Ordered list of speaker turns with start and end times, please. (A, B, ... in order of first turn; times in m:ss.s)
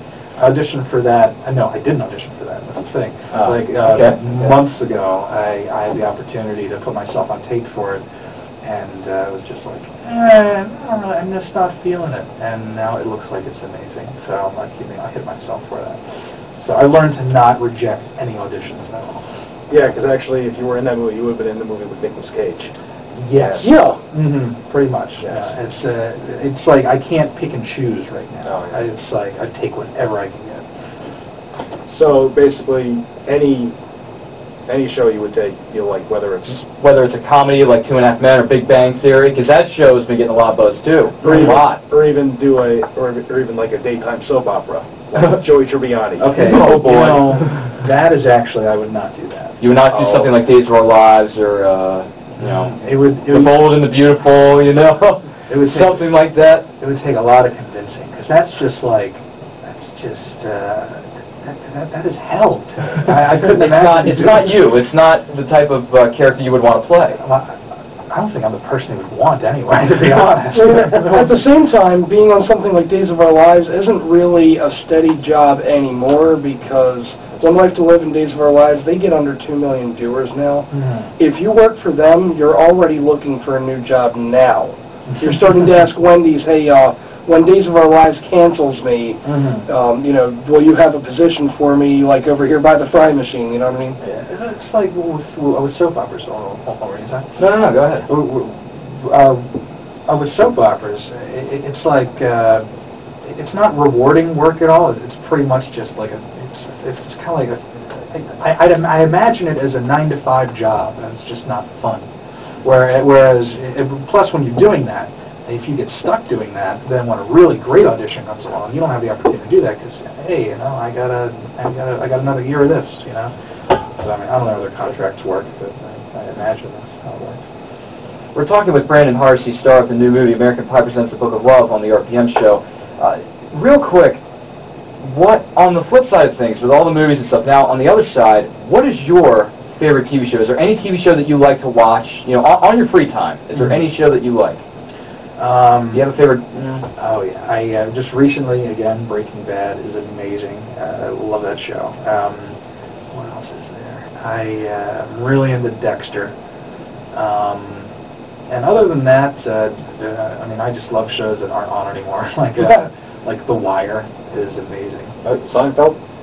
0:00.4-0:08.0 A
0:03.3-0:04.2 B
0:08.6-0:19.3 A
0:19.7-0:22.7 C
0:23.1-0:30.7 A
0:23.4-0:23.7 C
0:23.6-0:24.0 D
0:25.2-0:25.5 C
0:28.4-0:28.8 C
0:31.9-0:33.7 C
0:34.7-0:36.6 C
0:36.5-0:41.8 B
0:41.2-0:46.3 C
0:41.2-0:41.6 A
0:46.2-0:50.4 A
0:46.2-0:47.5 B
0:49.6-0:56.7 B
0:52.4-0:53.6 A
0:55.5-1:04.6 A
1:03.3-1:07.2 B
1:07.2-1:11.3 A
1:10.5-1:34.0 D
1:20.7-1:21.1 A
1:25.1-1:25.4 A
1:29.2-1:29.7 A
1:34.0-1:37.4 A
1:37.4-1:38.1 B
1:38.0-1:42.7 A
1:43.2-1:52.1 A
1:52.6-2:07.4 A
2:08.3-2:14.2 B
2:15.0-2:24.6 B
2:25.4-2:26.1 A
2:25.9-2:26.9 B
2:26.9-2:32.6 A
2:33.1-2:36.4 A
2:37.1-2:37.9 A
2:38.5-2:45.2 A
2:45.2-2:46.0 C